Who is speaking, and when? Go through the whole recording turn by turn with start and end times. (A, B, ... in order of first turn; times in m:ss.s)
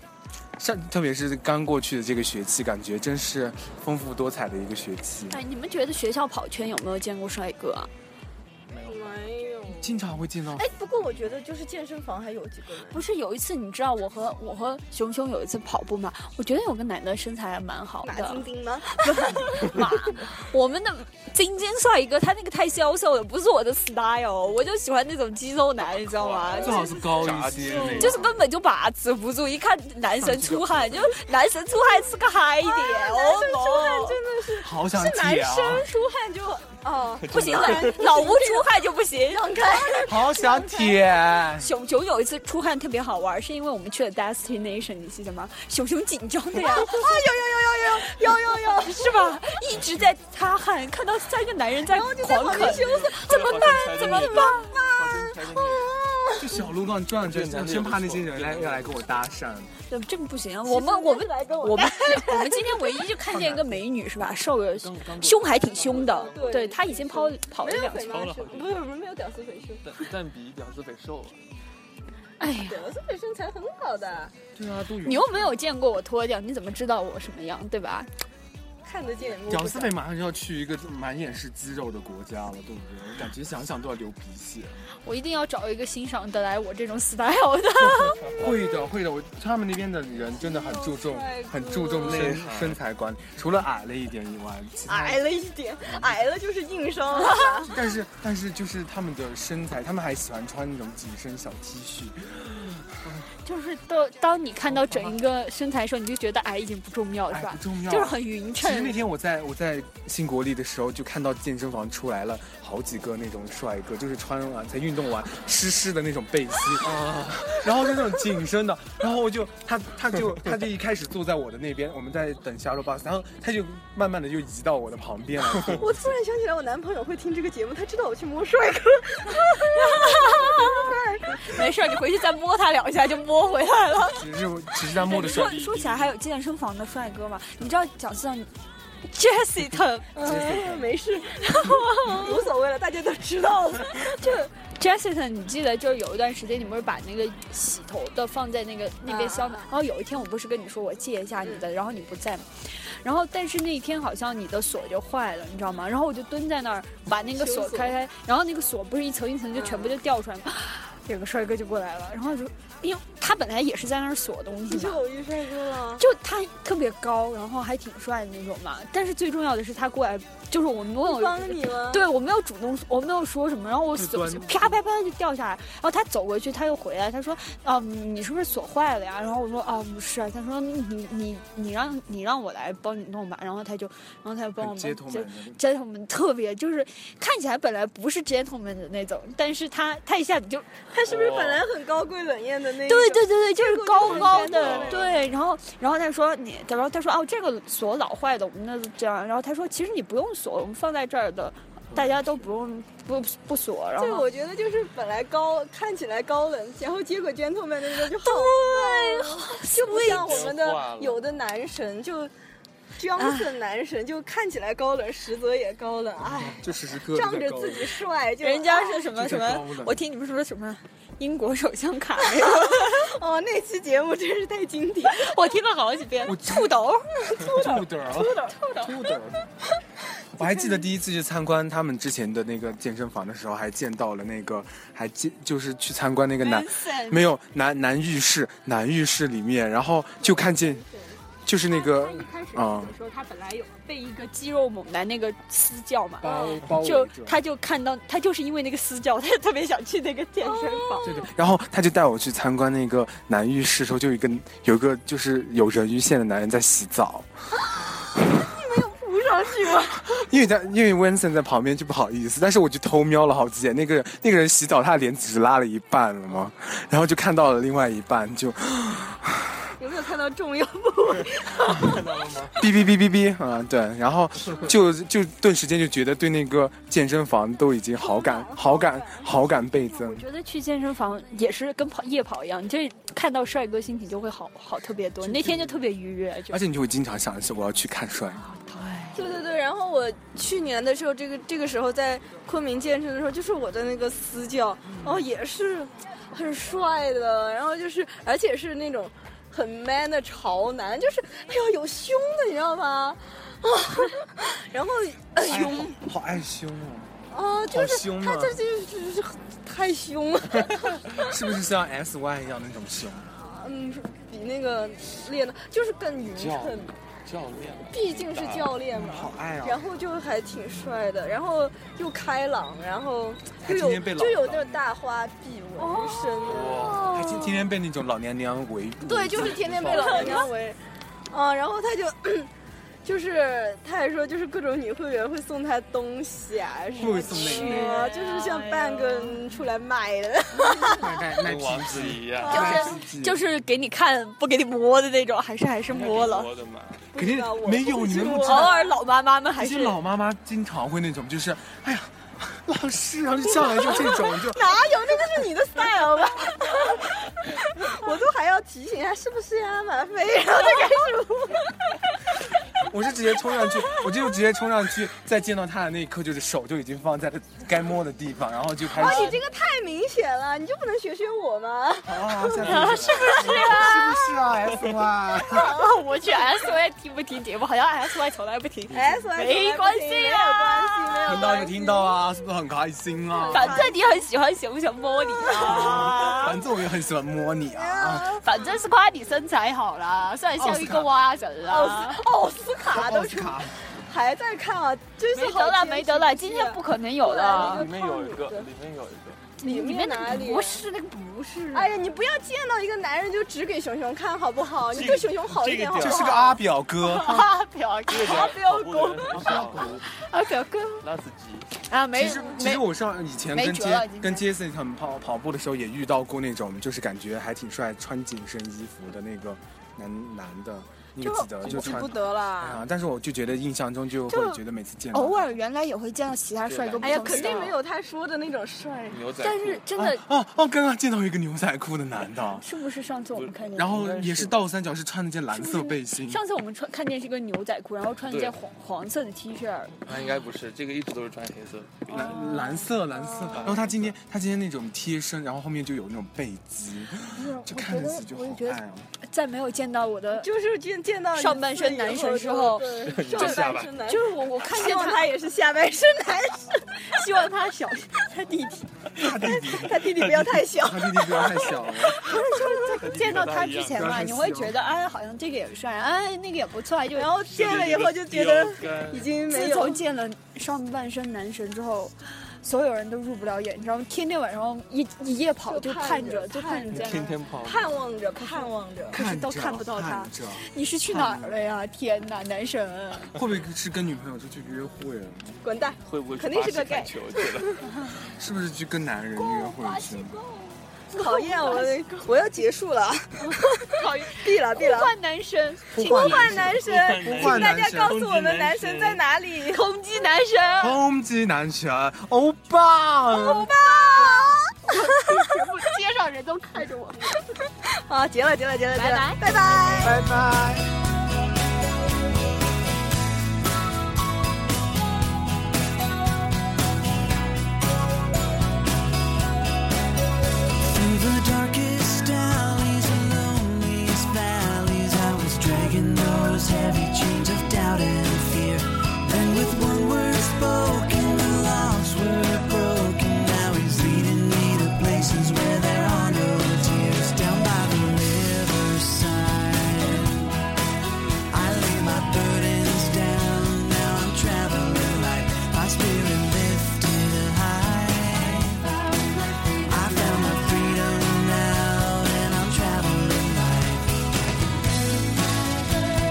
0:00.6-0:05.4 A
0:05.3-0:07.9 B
0:08.7-0:09.2 C
0:08.8-0:10.0 D
0:09.7-0:10.7 A
0:10.6-0:13.0 D
0:12.9-0:26.9 B
0:18.0-0:19.4 D
0:25.9-0:28.3 C
0:26.6-0:28.2 D
0:26.6-0:28.2 A
0:28.0-0:34.2 B
0:30.2-0:31.2 A
0:32.6-0:38.7 D
0:34.6-0:35.9 A
0:35.4-0:35.7 B
0:37.2-0:38.0 C
0:37.3-0:40.0 B
0:39.3-0:41.0 D
0:40.0-0:41.7 A
0:41.6-0:47.2 B
0:46.6-0:49.4 D
0:48.3-0:54.6 B
0:51.8-0:56.6 D
0:52.5-0:55.9 C
0:56.4-0:59.7 A
0:57.2-0:59.2 C
0:59.9-1:08.1 B
1:00.7-1:02.9 D
1:03.3-1:03.8 A
1:04.8-1:06.8 C
1:06.0-1:09.8 D
1:08.0-1:08.9 C
1:09.8-1:11.4 C
1:12.4-1:12.8 B
1:12.7-1:14.3 D
1:14.5-1:15.6 A
1:15.0-1:18.1 B
1:18.8-1:19.9 D
1:19.5-1:24.8 A
1:25.0-1:28.2 B
1:28.4-1:35.2 A
1:30.4-1:32.4 D
1:32.0-1:32.8 C
1:34.9-1:37.7 D
1:35.9-1:36.2 A
1:37.1-1:37.7 B
1:37.6-1:43.3 A
1:43.4-1:49.0 B
1:44.7-1:45.2 A
1:47.3-2:05.9 A
2:05.7-2:11.5 D
2:09.6-2:10.9 B
2:11.5-2:14.2 B
2:14.1-2:15.6 A
2:15.0-2:16.2 C
2:15.0-2:18.5 B
2:19.1-2:20.2 B
2:20.2-2:24.5 D
2:20.2-2:20.9 A
2:21.4-2:22.4 B
2:24.2-2:32.5 B
2:29.1-2:29.7 D
2:33.0-2:45.0 B
2:37.3-2:38.0 D
2:39.6-2:40.0 D
2:44.7-2:46.0 D
2:46.0-3:10.7 B
2:51.0-2:52.0 D
2:54.0-2:54.8 A
3:04.6-3:05.6 A
3:10.9-3:15.1 D
3:11.0-3:11.6 C
3:12.8-3:24.3 B
3:14.0-3:15.2 C
3:24.0-3:32.3 D
3:28.1-3:30.5 B
3:29.8-3:31.3 C
3:33.0-3:39.1 D
3:33.2-3:33.5 B
3:36.3-3:38.0 A
3:38.4-3:43.1 B
3:39.1-3:40.0 A
3:42.4-3:45.3 D
3:45.1-3:47.0 B
3:46.2-3:46.7 A
3:47.4-3:47.7 D
3:47.4-3:49.5 A
3:48.2-3:48.6 D
3:48.4-3:48.9 B
3:50.4-4:00.8 A
3:56.4-3:57.3 B
4:00.2-4:01.2 D
4:01.5-4:02.9 A
4:01.6-4:11.1 B
4:06.2-4:07.4 A
4:06.2-4:06.6 D
4:10.4-4:11.2 D
4:11.0-4:17.3 A
4:17.7-4:20.2 D
4:20.0-4:29.7 A
4:29.8-4:32.0 D
4:31.6-4:32.6 C
4:32.6-4:40.2 A
4:38.0-4:39.3 D
4:39.9-4:46.6 B
4:45.2-4:45.8 A
4:46.5-4:48.4 A
4:48.4-4:49.4 B
4:49.2-5:05.9 D
5:05.4-5:07.1 A
5:07.3-5:11.3 D
5:07.7-5:08.6 A
5:10.7-5:13.4 A
5:13.4-5:16.9 D
5:16.4-5:18.8 C
5:17.9-5:27.1 D
5:18.9-5:19.8 A
5:23.6-5:24.9 A
5:25.8-5:27.6 B
5:26.4-5:27.1 C
5:27.0-5:30.2 A
5:29.1-5:30.8 D
5:29.3-5:30.5 C
5:29.9-5:30.5 B
5:31.3-5:32.5 D
5:33.0-5:41.1 D
5:37.0-5:38.1 A
5:37.0-5:39.4 B
5:40.6-5:43.4 A
5:41.4-5:42.8 C
5:42.5-5:43.0 D
5:42.5-5:46.5 B
5:45.9-5:47.1 C
5:47.1-5:48.9 D
5:47.2-5:48.7 A
5:48.4-5:50.0 B
5:49.6-5:54.8 A
5:53.6-5:57.1 D
5:57.8-6:01.7 D
6:02.8-6:09.4 A
6:08.9-6:14.0 D
6:09.0-6:09.3 B
6:12.1-6:15.8 A
6:12.6-6:14.2 B
6:12.7-6:13.3 C
6:15.5-6:21.6 B
6:18.9-6:22.2 D
6:21.2-6:23.9 A
6:23.3-6:24.1 D
6:23.5-6:26.6 B
6:25.5-6:26.2 D
6:25.6-6:28.4 A
6:27.7-6:28.6 D
6:28.4-6:32.2 B
6:30.6-6:31.1 A
6:31.7-6:38.7 D
6:32.9-6:33.8 A
6:35.3-6:37.9 B
6:37.5-6:39.4 C
6:39.6-6:41.9 B
6:39.6-6:40.8 D
6:41.7-6:46.6 D
6:44.9-6:46.4 C
6:46.0-6:47.5 A
6:47.0-6:48.5 B
6:48.1-6:50.0 C
6:48.2-6:49.9 D
6:49.4-6:49.9 A
6:50.1-6:51.0 B
6:51.0-6:51.7 C
6:51.9-6:52.9 B
6:52.1-7:05.5 A
6:53.5-6:54.4 B
7:01.2-7:02.8 D
7:01.7-7:02.0 C
7:04.3-7:04.6 B
7:05.1-7:07.8 B
7:06.7-7:07.7 C
7:07.0-7:09.2 D
7:09.1-7:09.8 C
7:09.4-7:10.2 B
7:10.0-7:12.7 A
7:12.6-7:14.0 B
7:13.4-7:14.7 C
7:13.8-7:16.4 A
7:15.5-7:20.0 B
7:18.3-7:18.6 C
7:20.0-7:22.4 C
7:22.1-7:22.9 B
7:22.1-7:29.1 A
7:23.1-7:23.8 D
7:23.5-7:24.1 C
7:27.3-7:30.5 B
7:30.4-7:36.8 D
7:31.3-7:35.3 B
7:33.0-7:34.0 C
7:37.1-7:38.9 B
7:39.1-7:42.3 A
7:39.5-7:43.0 D
7:39.6-7:40.5 C
7:42.2-7:47.3 B
7:43.0-7:44.2 C
7:43.9-7:44.8 A
7:47.1-7:50.0 D
7:47.5-7:49.3 C
7:49.5-7:57.3 B
7:55.7-7:59.2 D
7:56.9-7:58.0 C
7:58.4-8:03.4 B
7:59.1-8:01.6 A
8:03.3-8:05.6 A
8:05.6-8:07.8 D
8:06.1-8:07.8 C
8:08.3-8:10.4 A
8:09.4-8:12.2 B
8:11.1-8:15.1 D
8:13.4-8:16.3 B
8:15.9-8:18.2 A
8:16.0-8:19.8 D
8:16.1-8:19.2 C
8:19.7-8:21.0 B
8:20.8-8:23.7 A
8:23.3-8:25.2 D
8:24.9-8:27.4 B
8:27.9-8:30.2 D
8:29.0-8:29.4 B
8:30.0-8:30.9 A
8:40.8-9:00.6 E
9:01.5-9:09.1 E
9:09.7-9:14.4 E